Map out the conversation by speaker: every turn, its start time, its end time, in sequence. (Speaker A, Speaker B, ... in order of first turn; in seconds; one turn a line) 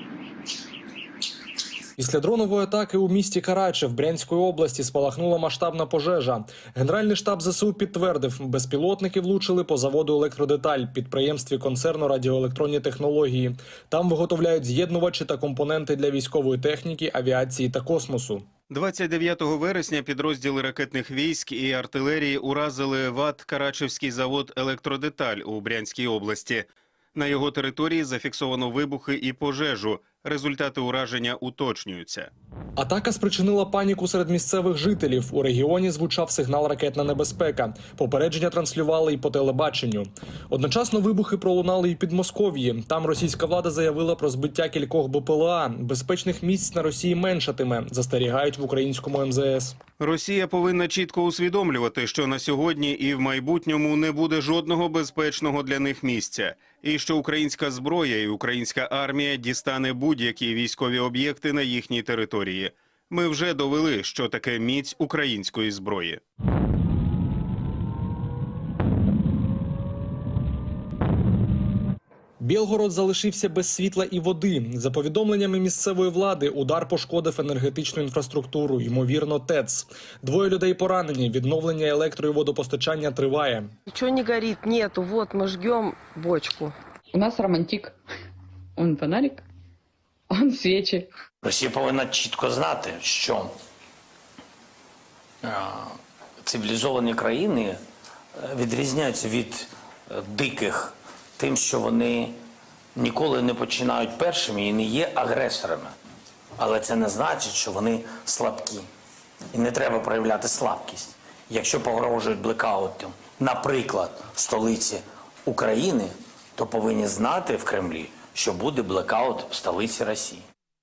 Speaker A: 2.0-18.4
Speaker B: 18.7-32.3
Speaker A: 32.8-49.8
Speaker B: 50.0-66.2
Speaker A: 72.4-83.7
Speaker C: 83.9-86.8
Speaker D: 87.1-88.0
Speaker D: 88.8-89.5
Speaker D: 90.3-91.1
Speaker E: 91.4-93.5
Speaker E: 95.4-97.8
Speaker E: 98.4-102.4
Speaker E: 102.9-105.9
Speaker E: 106.6-108.8
Speaker E: 109.5-120.4